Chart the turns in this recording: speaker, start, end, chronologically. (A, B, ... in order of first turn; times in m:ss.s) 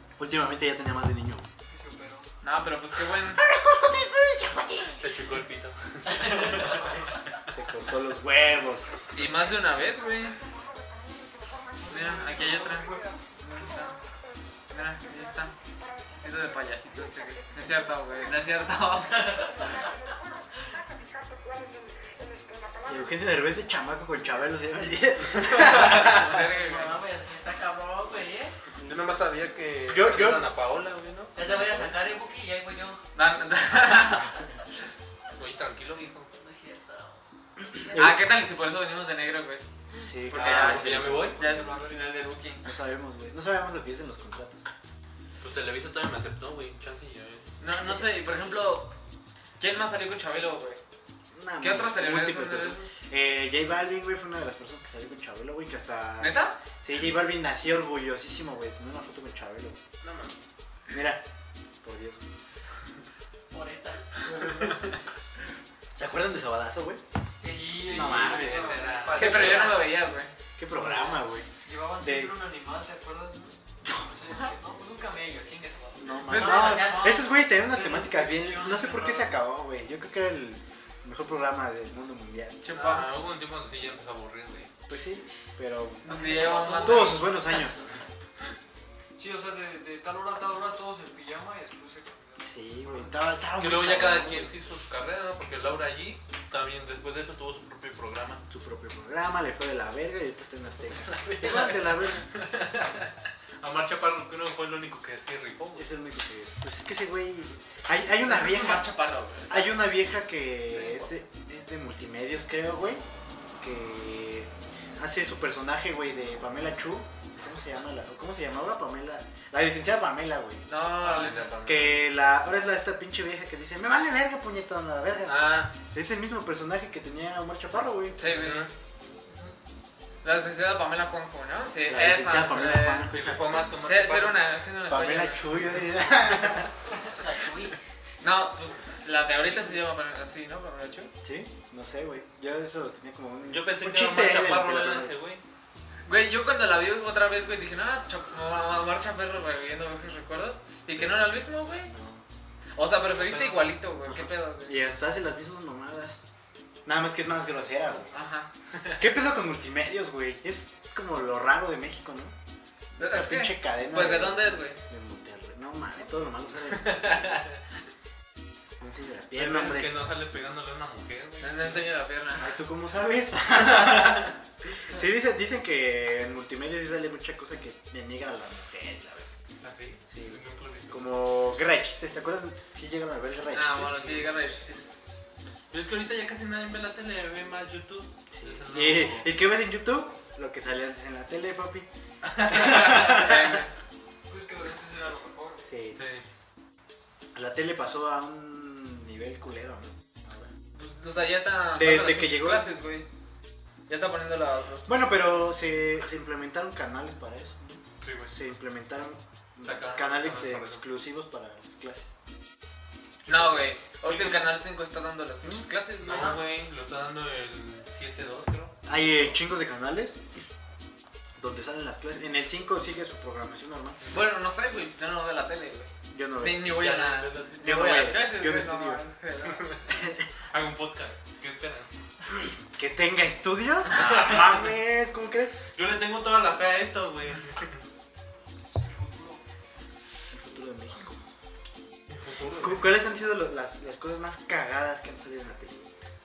0:00.2-0:01.5 A
0:01.6-0:02.3 B
0:02.4-0:03.4 C
0:03.4-0:05.0 A
0:05.0-0:06.9 D
0:06.6-0:07.0 B
0:07.5-0:08.9 A
0:09.2-0:10.4 C
0:11.8-0:13.2 B
0:11.9-0:14.0 C
0:14.7-0:15.5 C
0:16.1-0:19.5 C
0:19.2-0:19.6 E
0:22.8-0:26.3 A
0:25.5-0:27.0 C
0:26.2-0:28.6 E
0:28.8-0:31.3 D
0:29.9-0:30.5 A
0:31.4-0:33.0 E
0:31.4-0:32.0 A
0:33.1-0:34.4 C
0:35.4-0:36.3 D
0:36.4-0:37.2 E
0:37.8-0:38.2 A
0:37.9-0:39.6 C
0:40.1-0:41.4 A
0:40.3-0:42.6 C
0:40.3-0:41.5 D
0:41.3-0:42.1 B
0:42.6-0:44.7 A
0:45.4-0:47.5 D
0:47.6-0:48.9 C
0:49.6-0:50.8 C
0:51.3-0:59.8 A
0:51.6-0:52.9 C
0:56.2-0:56.6 C
1:00.0-1:00.4 D
1:00.9-1:01.2 A
1:01.8-1:02.3 A
1:03.5-1:04.1 E
1:06.0-1:07.0 A
1:07.4-1:09.9 E
1:07.4-1:09.8 B
1:07.7-1:09.7 D
1:07.9-1:08.8 A
1:09.1-1:10.3 C
1:10.6-1:11.5 A
1:10.7-1:19.4 B
1:12.0-1:12.4 A
1:16.0-1:22.6 A
1:16.3-1:17.2 E
1:22.6-1:23.1 C
1:22.7-1:24.7 D
1:24.9-1:27.8 A
1:26.0-1:27.3 C
1:26.2-1:27.3 B
1:29.2-1:33.0 B
1:32.4-1:34.5 A
1:33.6-1:38.4 D
1:38.5-1:42.3 A
1:41.3-1:41.7 D
1:42.3-1:43.1 D
1:43.6-1:45.9 D
1:45.8-1:48.9 A
1:48.2-1:49.9 C
1:49.5-1:53.0 A
1:50.7-1:51.1 C
1:53.6-2:00.7 A
2:00.7-2:01.5 C
2:01.0-2:02.0 D
2:01.6-2:08.3 A
2:05.3-2:05.7 D
2:08.2-2:08.7 C
2:08.2-2:08.7 D
2:10.2-2:13.1 C
2:11.9-2:13.7 A
2:13.1-2:14.6 D
2:13.8-2:15.5 C
2:14.9-2:16.7 A
2:17.1-2:17.8 E
2:18.2-2:21.1 C
2:21.2-2:25.2 A
2:23.5-2:25.4 D
2:26.1-2:31.9 C
2:31.0-2:32.2 A
2:32.8-2:34.8 C
2:33.1-2:33.8 D
2:34.1-2:36.2 A
2:36.8-2:38.2 A
2:38.1-2:38.5 C
2:39.0-2:42.4 A
2:43.0-2:47.4 A
2:43.0-2:44.8 C
2:46.9-2:47.4 D
2:48.8-2:50.0 A
2:49.4-2:51.9 D
2:51.4-2:52.5 C
2:52.4-2:59.3 A
2:59.6-3:01.1 D
3:00.1-3:04.4 A
3:03.5-3:05.1 C
3:05.7-3:09.3 D
3:08.3-3:11.9 A
3:12.5-3:13.6 A
3:12.5-3:13.7 C
3:14.3-3:15.7 B
3:15.7-3:16.0 A
3:16.0-3:16.2 D
3:17.3-3:20.5 A
3:20.8-3:23.1 C
3:21.8-3:22.7 A
3:23.9-3:25.4 C
3:24.9-3:32.1 A
3:28.0-3:28.4 D
3:29.6-3:30.8 D
3:33.3-3:36.4 C
3:33.3-3:33.6 A
3:34.0-3:34.4 D
3:36.0-3:38.8 D
3:38.9-3:40.2 A
3:41.4-3:44.0 A
3:44.0-3:44.3 D
3:44.1-3:45.9 C
3:46.1-3:46.9 A
3:46.4-3:49.7 C
3:46.7-3:48.2 D
3:47.6-3:49.0 A
3:49.5-3:49.8 D
3:49.9-3:50.3 A
3:50.5-3:51.9 D
3:52.8-3:55.6 A
3:53.9-3:54.7 D
3:55.8-3:57.8 D
3:58.7-3:59.4 B
4:00.3-4:01.2 A
4:02.1-4:02.9 D
4:02.6-4:05.8 A